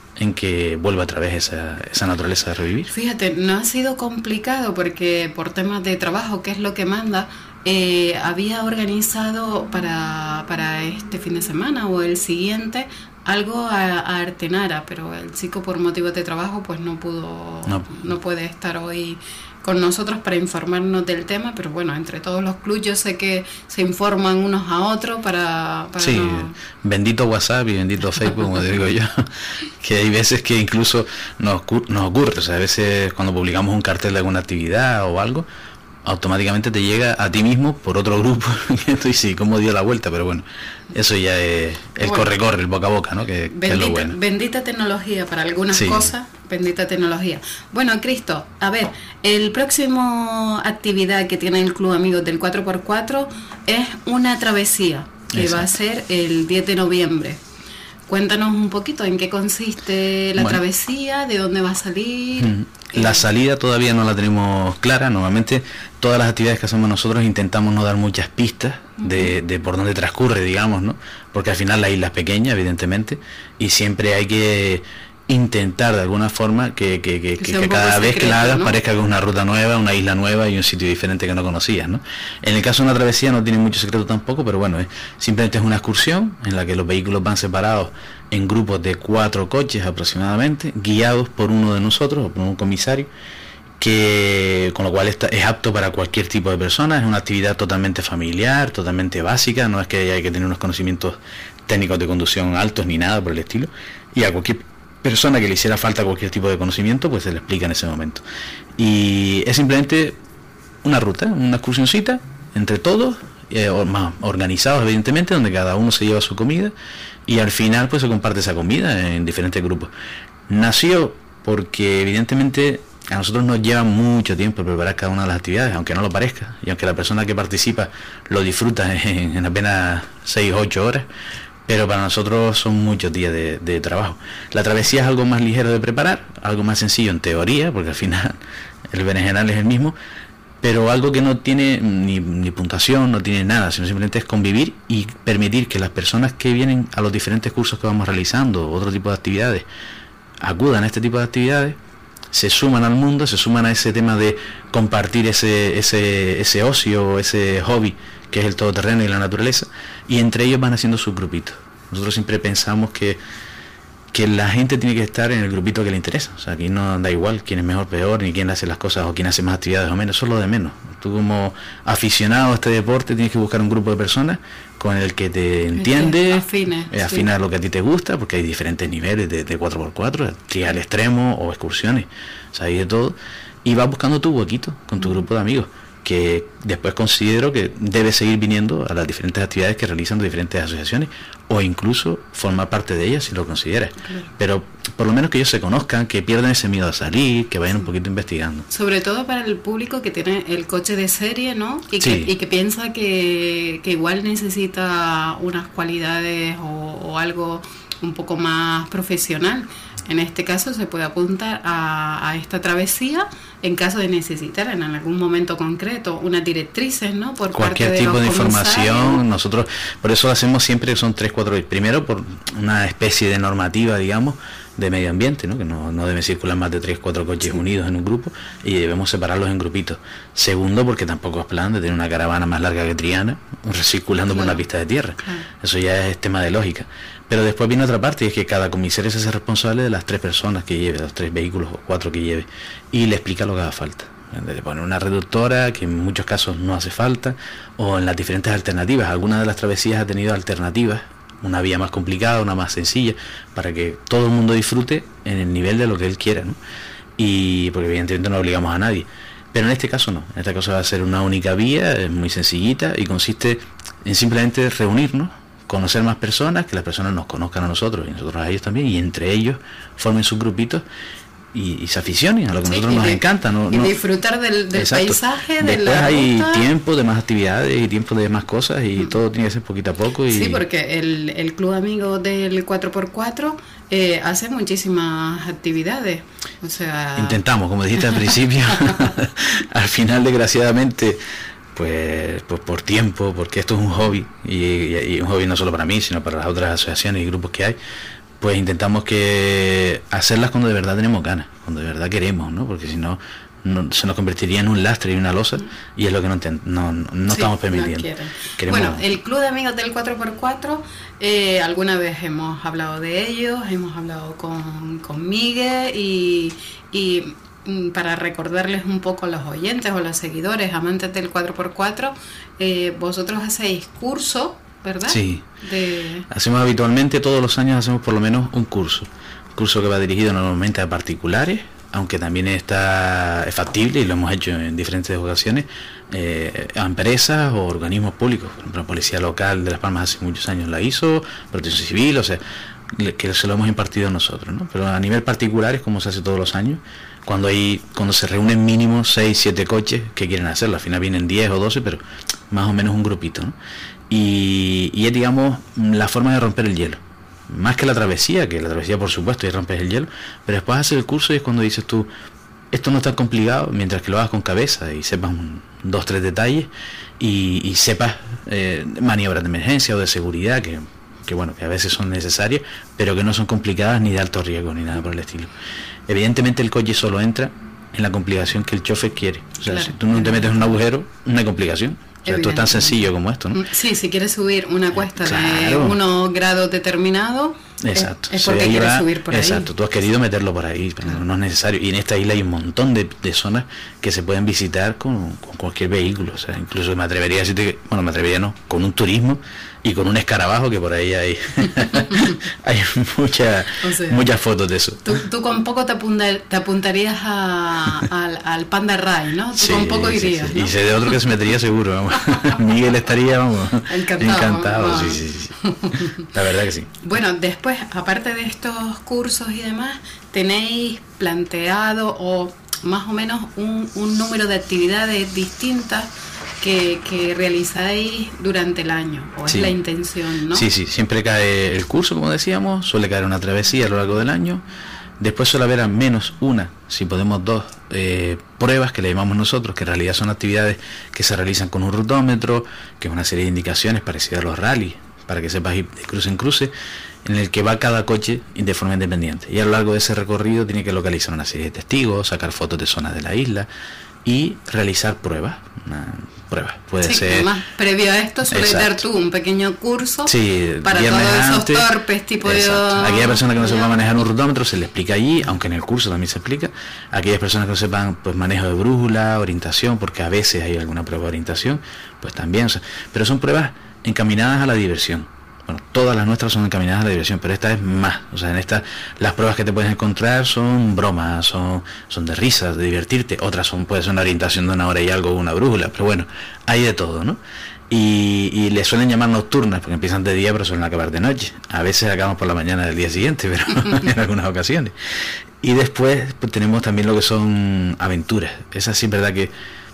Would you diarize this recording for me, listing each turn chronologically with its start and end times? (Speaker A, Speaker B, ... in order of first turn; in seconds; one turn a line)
Speaker A: 0.2-2.9
Speaker B: 2.9-26.6
Speaker A: 17.6-18.1
Speaker A: 26.0-35.5
Speaker A: 36.0-44.2
Speaker B: 42.0-42.3
Speaker B: 43.5-57.4
Speaker A: 45.7-46.1
Speaker A: 55.3-55.8
Speaker B: 58.1-63.2
Speaker A: 62.4-93.1
Speaker B: 69.0-69.3
Speaker B: 77.4-78.8
Speaker A: 93.8-108.2
Speaker A: 108.8-110.2
Speaker A: 110.8-116.7
Speaker A: 117.2-119.9
Speaker A: 120.5-131.1
Speaker A: 131.7-139.9
Speaker A: 140.6-149.7
Speaker A: 150.4-151.8
Speaker A: 152.3-163.2
Speaker A: 164.1-198.7
Speaker B: 175.8-177.3
Speaker B: 194.0-194.3
Speaker B: 198.7-219.2
Speaker A: 202.0-202.3
Speaker A: 217.5-256.6
Speaker B: 234.3-234.6
Speaker B: 235.2-235.5
Speaker A: 257.2-270.8
Speaker A: 271.5-273.9
Speaker B: 272.6-276.6
Speaker A: 274.7-280.6
Speaker B: 280.3-287.4
Speaker A: 287.1-297.8
Speaker A: 298.4-309.0
Speaker B: 307.3-326.2
Speaker A: 325.1-325.5
Speaker A: 326.3-353.6
Speaker A: 354.1-362.1
Speaker A: 362.7-375.5
Speaker A: 376.1-383.6
Speaker B: 379.6-380.7
Speaker B: 382.2-389.7
Speaker A: 384.9-386.0
Speaker A: 387.8-405.2
Speaker B: 401.9-402.3
Speaker B: 403.8-404.2
Speaker B: 405.0-411.2
Speaker A: 409.6-416.9
Speaker B: 413.9-416.2
Speaker B: 417.0-430.7
Speaker A: 429.5-429.8
Speaker A: 430.5-434.6
Speaker A: 435.2-453.7
Speaker A: 454.2-457.5
Speaker B: 457.0-460.3
Speaker A: 458.5-459.0
Speaker A: 460.2-461.9
Speaker B: 460.8-463.9
Speaker A: 462.4-499.5